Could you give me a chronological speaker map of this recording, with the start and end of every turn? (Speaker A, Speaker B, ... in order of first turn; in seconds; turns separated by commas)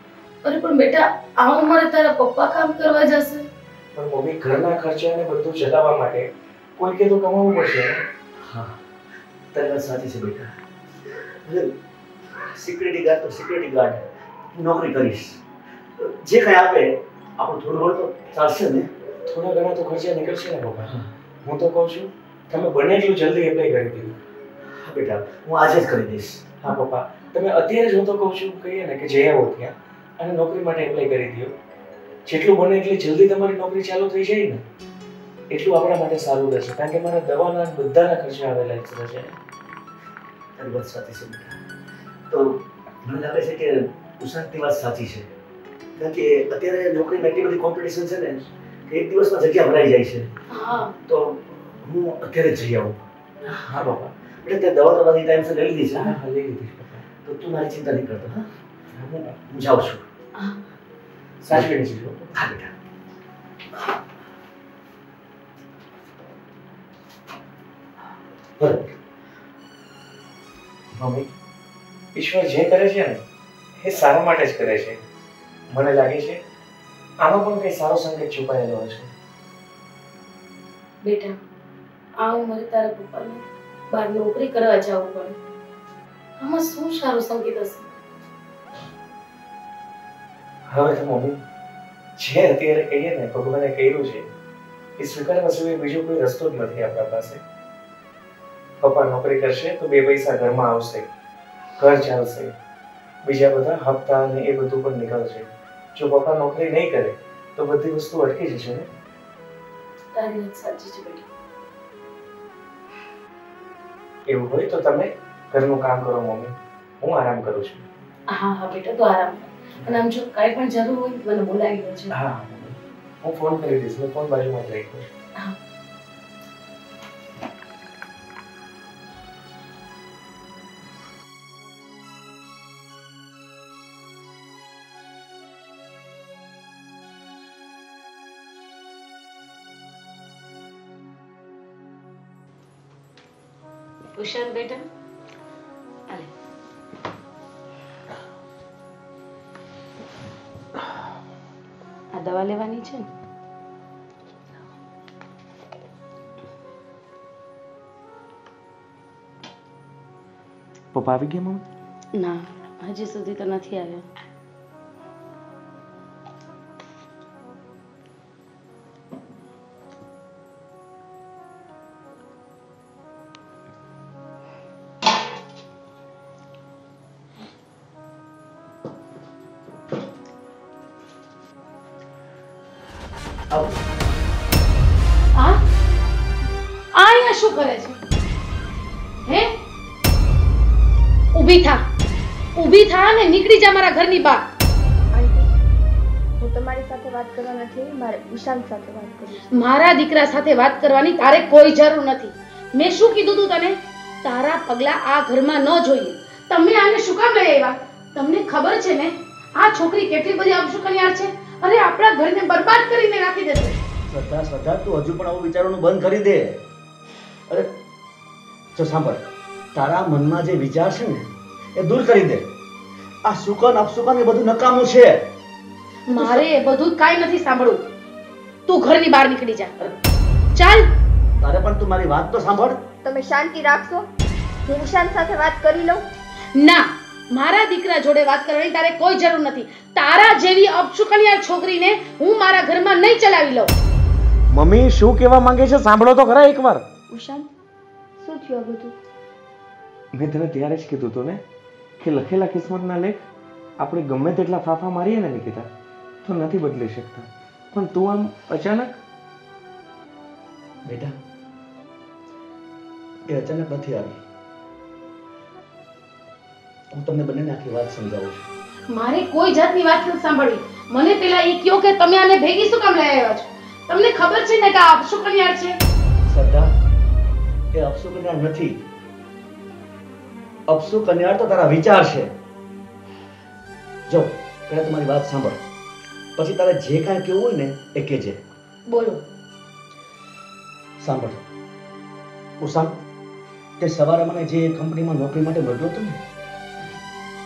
Speaker A: 0.4-3.5, Speaker B: 3.9-8.0, Speaker C: 8.4-8.8, Speaker C: 9.5-10.6, Speaker C: 11.1-11.8, Speaker C: 12.3-15.4, Speaker C: 16.0-18.9, Speaker B: 19.3-24.2, Speaker C: 24.6-26.5, Speaker B: 26.6-31.5, Speaker B: 32.2-34.6, Speaker B: 35.5-39.4, Speaker C: 40.6-41.6, Speaker C: 42.3-45.3, Speaker C: 46.0-50.3, Speaker A: 50.5-50.9, Speaker C: 51.0-53.0, Speaker B: 53.4-54.1, Speaker C: 54.3-56.2, Speaker B: 56.0-57.0, Speaker C: 57.2-58.5, Speaker B: 58.9-59.4, Speaker C: 59.4-60.0, Speaker B: 61.4-62.3, Speaker C: 61.5-62.7, Speaker C: 68.6-68.9, Speaker B: 71.0-71.3, Speaker B: 72.1-73.2, Speaker B: 73.8-75.0, Speaker B: 75.7-76.4, Speaker B: 77.2-79.1, Speaker A: 81.0-81.4, Speaker A: 82.2-85.3, Speaker A: 86.4-87.9, Speaker B: 90.7-91.4, Speaker B: 92.2-94.2, Speaker B: 95.0-97.4, Speaker B: 98.8-101.0, Speaker B: 101.8-102.5, Speaker B: 103.2-108.9, Speaker A: 110.1-111.2, Speaker B: 114.3-117.9, Speaker A: 118.3-122.1, Speaker B: 122.1-125.1, Speaker A: 144.2-144.8, Speaker A: 152.1-153.1, Speaker B: 160.9-161.6, Speaker A: 162.1-164.1, Speaker C: 183.5-183.8, Speaker A: 185.3-185.6, Speaker A: 186.9-188.0, Speaker A: 189.2-189.5, Speaker A: 191.3-191.8, Speaker A: 192.5-194.5, Speaker D: 195.1-195.5, Speaker D: 196.4-199.5, Speaker A: 199.5-213.8, Speaker C: 214.1-216.6, Speaker C: 218.7-222.5, Speaker C: 223.2-225.3, Speaker A: 226.1-227.8, Speaker C: 226.1-226.4, Speaker A: 228.7-229.7, Speaker A: 230.5-230.9, Speaker C: 231.4-232.9, Speaker D: 233.0-234.1, Speaker D: 234.7-236.1, Speaker A: 236.5-243.7, Speaker B: 244.5-246.8, Speaker D: 247.1-247.5, Speaker D: 248.2-248.9, Speaker B: 250.1-251.4, Speaker B: 252.0-253.2, Speaker B: 253.8-255.7, Speaker B: 256.2-258.9, Speaker C: 260.8-261.2, Speaker C: 263.3-264.2, Speaker C: 266.9-268.5, Speaker A: 268.9-275.8, Speaker C: 276.3-276.7, Speaker C: 277.7-278.8, Speaker C: 280.7-282.3, Speaker C: 284.1-285.6, Speaker C: 286.4-288.4, Speaker A: 288.9-289.2, Speaker C: 291.0-291.4, Speaker C: 292.6-292.9, Speaker C: 293.8-296.2